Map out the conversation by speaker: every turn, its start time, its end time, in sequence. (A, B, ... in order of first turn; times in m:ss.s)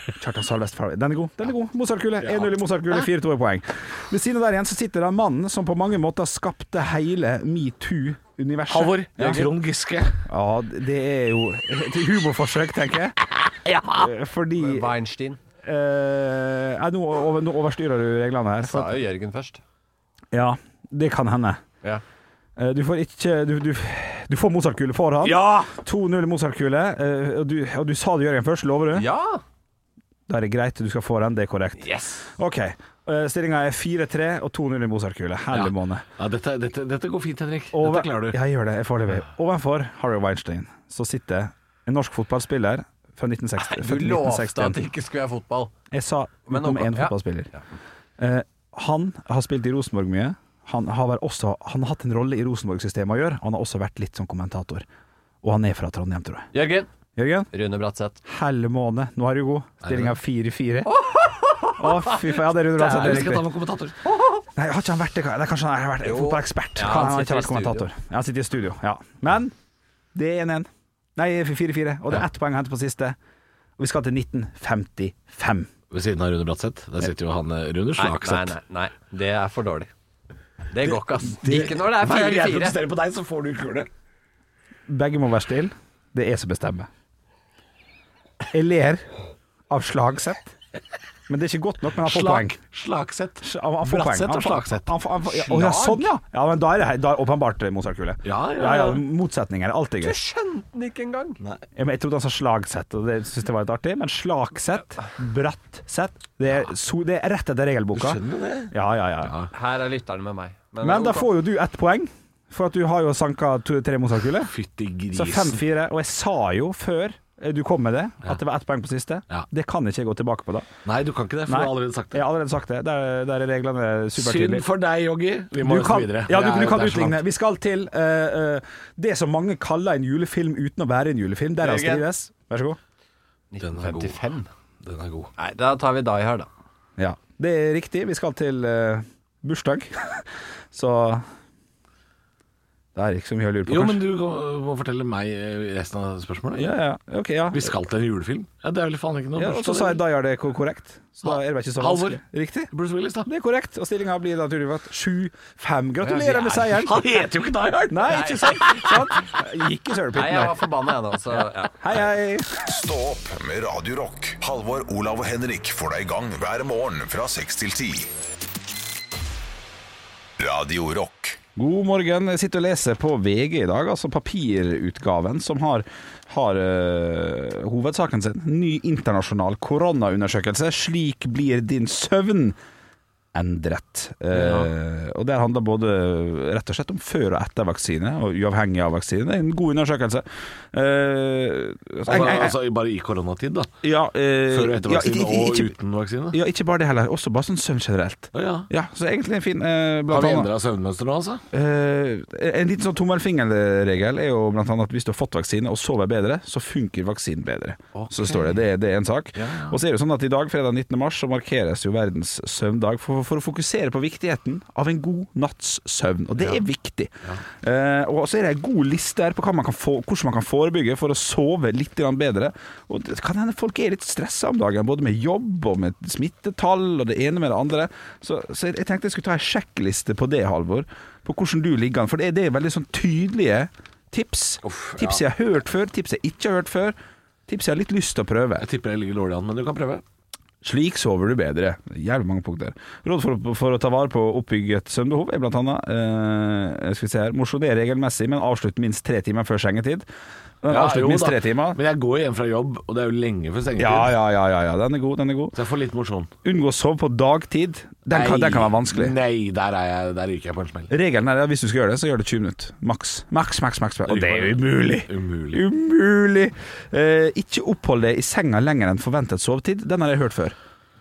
0:00.2-0:09.4 A
0:02.2-0:02.5 B
0:08.7-0:10.2 B
0:10.3-0:13.2 A
0:13.6-0:14.1 B
0:14.0-0:14.9 A
0:14.6-0:15.4 C
0:15.6-0:19.0 A
0:18.6-0:19.6 C
0:20.3-0:21.6 A
0:22.6-0:29.0 A
0:25.2-0:25.7 B
0:28.9-0:29.4 C
0:30.3-0:36.0 A
0:35.5-0:38.4 B
0:37.7-0:44.8 A
0:43.6-0:45.7 C
0:45.9-0:47.5 A
0:46.5-0:47.1 C
0:48.2-0:54.8 A
0:55.4-0:56.5 A
0:56.5-0:56.9 C
0:57.2-0:57.5 A
0:57.5-0:58.2 C
0:58.3-1:00.9 A
0:59.8-1:00.1 B
1:00.9-1:02.2 C
1:01.8-1:03.4 A
1:02.7-1:04.0 B
1:02.8-1:03.2 C
1:04.0-1:04.4 C
1:04.6-1:09.5 A
1:06.0-1:07.8 C
1:10.1-1:13.2 A
1:13.8-1:15.7 A
1:15.9-1:18.6 B
1:18.0-1:19.9 C
1:20.7-1:22.8 C
1:20.8-1:23.9 B
1:24.9-1:26.9 A
1:28.5-1:29.1 A
1:29.7-1:30.5 A
1:31.3-1:32.6 A
1:32.0-1:34.9 B
1:33.4-1:40.2 A
1:35.3-1:36.1 C
1:38.2-1:39.0 B
1:40.0-1:41.4 C
1:41.8-1:48.2 A
1:47.9-1:49.5 B
1:48.7-1:49.3 A
1:49.5-1:51.3 C
1:50.8-1:54.5 A
1:54.5-1:55.6 B
1:55.1-2:00.6 A
2:00.8-2:02.2 B
2:01.5-2:04.6 A
2:04.1-2:07.2 B
2:05.6-2:12.8 A
2:11.6-2:12.0 C
2:13.5-2:14.5 C
2:13.6-2:14.2 B
2:14.8-2:15.3 B
2:15.4-2:16.5 C
2:17.0-2:21.2 A
2:22.9-2:24.0 A
2:23.6-2:26.7 B
2:26.6-2:27.7 A
2:27.5-2:30.0 B
2:29.4-2:32.7 A
2:31.2-2:32.2 B
2:32.7-2:33.3 B
2:33.2-2:36.9 A
2:36.0-2:36.8 C
2:36.7-2:39.1 B
2:37.9-2:40.6 A
2:38.1-2:38.8 C
2:40.1-2:41.7 C
2:41.8-2:42.6 A
2:42.6-2:48.1 D
2:50.4-2:51.4 D
2:51.6-3:02.6 A
3:03.3-3:12.5 A
3:12.0-3:13.7 B
3:13.8-3:15.7 A
3:14.5-3:16.4 B
3:16.3-3:20.5 A
3:18.3-3:18.7 B
3:20.1-3:21.4 B
3:21.5-3:57.0 A
3:27.9-3:28.6 B
3:29.4-3:29.8 B
3:54.6-3:55.2 B
3:57.5-3:58.6 A
3:58.6-4:00.0 B
4:00.6-4:10.0 A
4:10.6-4:11.8 A
4:10.7-4:14.2 B
4:13.8-4:15.6 A
4:15.5-4:16.3 B
4:16.4-4:19.2 A
4:18.1-4:20.9 B
4:20.9-4:30.6 A
4:24.0-4:25.6 B